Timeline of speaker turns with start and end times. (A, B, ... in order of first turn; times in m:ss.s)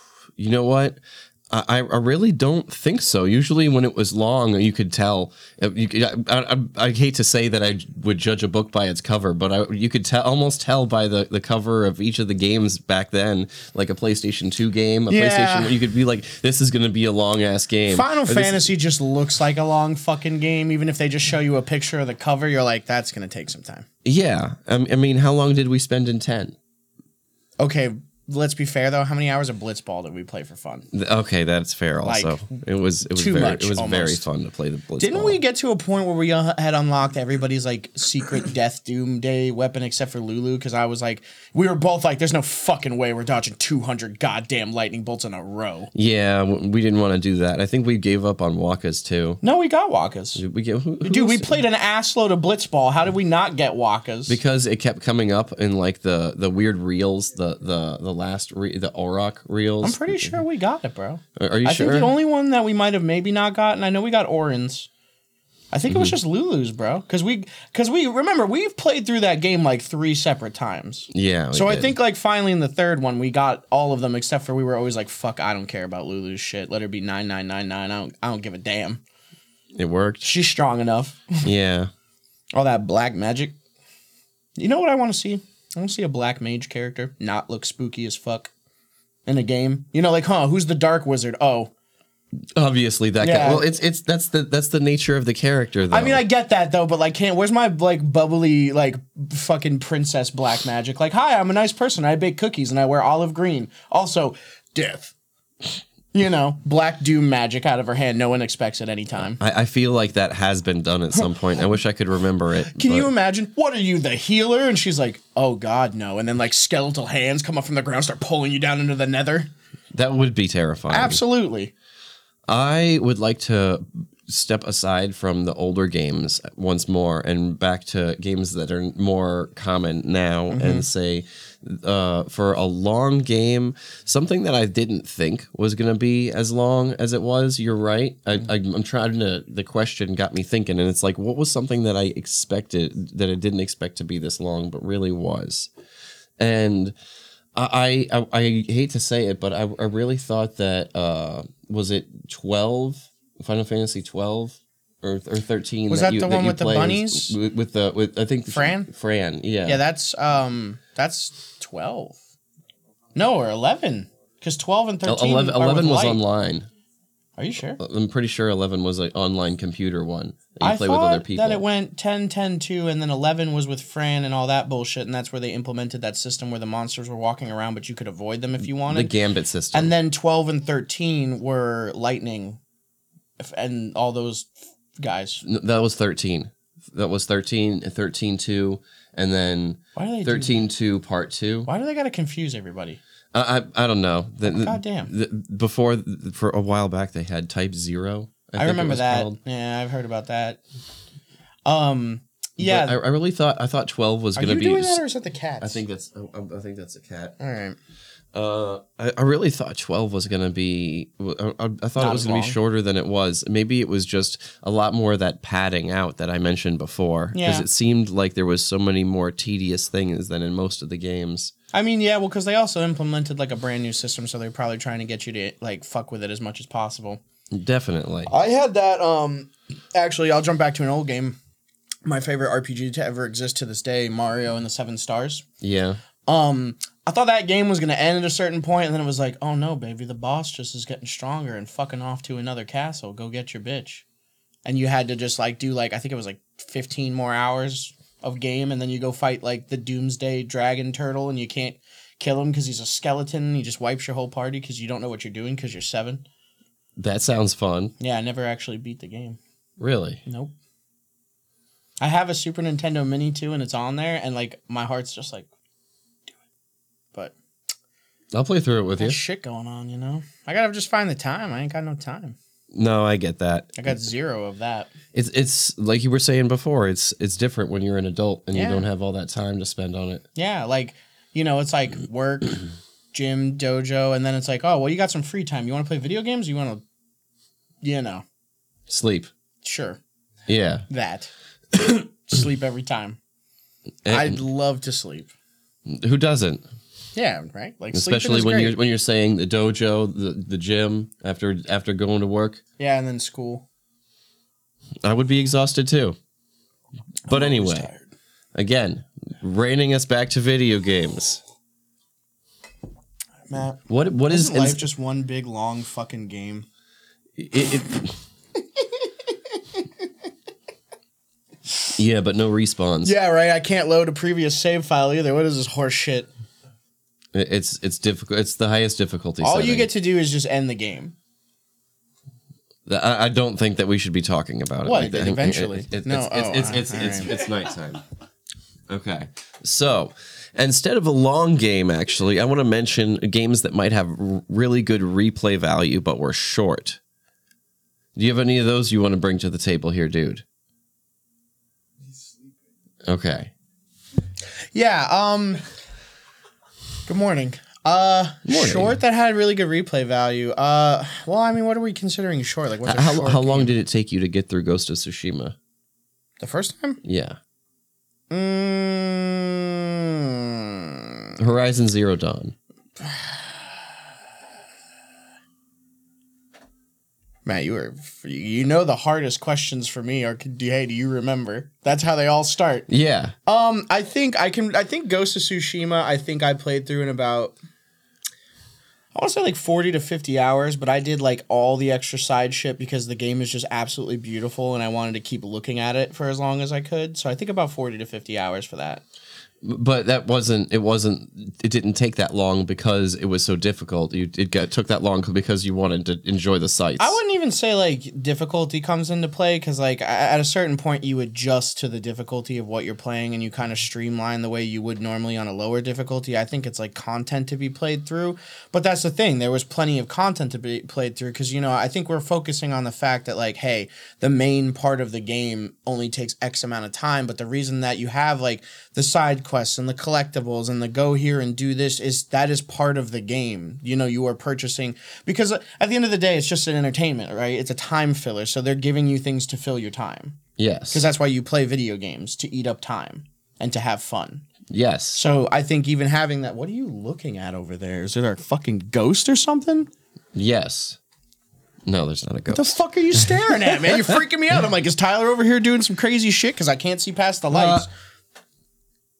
0:00.4-0:18.6 A
0:15.1-0:15.8 B
0:17.9-0:23.9 B
0:24.0-0:26.6 A
0:27.6-0:30.9 B
0:30.9-0:35.4 A
0:32.0-0:32.4 B
0:33.1-0:34.2 B
0:35.0-0:45.9 B
0:45.9-0:49.4 A
0:49.4-0:50.4 B
0:50.4-0:51.6 A
0:51.0-0:54.4 B
0:54.3-1:00.4 A
0:59.8-1:04.9 B
1:01.4-1:02.1 A
1:05.7-1:19.0 B
1:05.9-1:06.2 A
1:11.1-1:12.0 A
1:19.8-1:20.3 A
1:20.2-1:21.5 B
1:21.4-1:21.9 A
1:22.5-1:23.6 B
1:24.6-1:28.5 B
1:29.3-1:31.7 B
1:32.6-1:36.2 A
1:33.2-1:33.7 B
1:35.9-1:45.1 B
1:46.1-1:49.4 B
1:49.4-1:53.1 A
1:52.6-1:59.5 B
1:59.9-2:01.2 A
2:00.9-2:01.7 B
2:02.5-2:25.7 A
2:10.5-2:10.9 B
2:26.4-2:26.9 A
2:27.6-2:39.8 A
2:35.9-2:37.4 B
2:38.5-2:38.9 B
2:39.6-2:42.2 B
2:43.1-2:46.2 B
2:45.0-2:46.7 A
2:47.4-2:47.8 B
2:47.8-2:51.6 A
2:50.6-2:59.1 B
2:58.6-2:59.9 A
2:59.7-3:02.6 B
3:03.4-3:05.4 B
3:05.4-3:11.7 A
3:10.0-3:10.6 B
3:11.6-3:13.0 B
3:13.3-3:19.4 A
3:14.4-3:15.1 B
3:18.6-3:20.6 B
3:21.6-3:23.0 B
3:22.6-3:25.0 A
3:24.4-3:25.8 B
3:25.6-3:27.4 A
3:27.4-3:27.8 B
3:28.3-3:41.5 A
3:32.0-3:32.6 B
3:37.3-3:37.6 B
3:41.7-3:47.2 B
3:47.5-3:48.3 A
3:48.3-3:51.4 B
3:52.0-3:55.4 B
3:55.6-3:56.0 A
3:56.3-4:04.0 B
4:04.6-4:16.2 B
4:17.0-4:17.9 A
4:18.0-4:19.4 B
4:19.8-4:20.2 A
4:20.2-4:20.5 B
4:22.0-4:25.5 B
4:28.3-4:29.2 A
4:29.0-4:32.4 B
4:32.7-4:33.7 A
4:33.8-4:34.9 B
4:35.1-4:40.2 A
4:38.5-4:38.9 B
4:40.4-4:46.8 B
4:47.8-4:48.2 B
4:48.9-4:49.3 A
4:49.6-4:50.0 B
4:50.4-4:50.8 A
4:50.9-4:53.2 B
4:54.0-4:54.4 A
4:54.1-4:55.3 B
4:55.9-4:56.6 A
4:57.1-4:58.8 B
4:57.9-5:02.6 A
5:02.8-5:03.6 B
5:05.0-5:06.2 A
5:07.3-5:08.1 B
5:07.3-5:07.9 A
5:08.5-5:11.4 A
5:13.5-5:16.6 B
5:13.9-5:14.9 A
5:17.4-5:18.2 A
5:21.9-5:23.1 A
5:23.0-5:26.3 B
5:27.3-5:29.9 A
5:29.4-5:31.1 B
5:32.9-5:38.0 A
5:34.8-5:37.3 B
5:38.9-5:47.0 A
5:48.2-5:50.4 A
5:53.1-5:53.5 A
5:54.8-5:55.6 B
5:57.1-6:03.7 B
5:58.4-5:58.9 A
6:02.8-6:05.6 A
6:06.4-6:07.0 B
6:07.0-6:07.4 A
6:08.3-6:11.3 B
6:11.4-6:12.6 A
6:13.0-6:13.6 B
6:17.4-6:22.9 B
6:22.9-6:23.4 A
6:23.4-6:27.6 B
6:29.1-6:39.0 B
6:39.6-6:47.2 A
6:47.0-7:24.4 B
7:20.6-7:21.1 A
7:24.7-7:25.2 A
7:25.1-7:29.9 B
7:30.4-7:31.0 A
7:31.9-7:34.0 A
7:32.5-7:37.9 B
7:37.5-7:37.9 A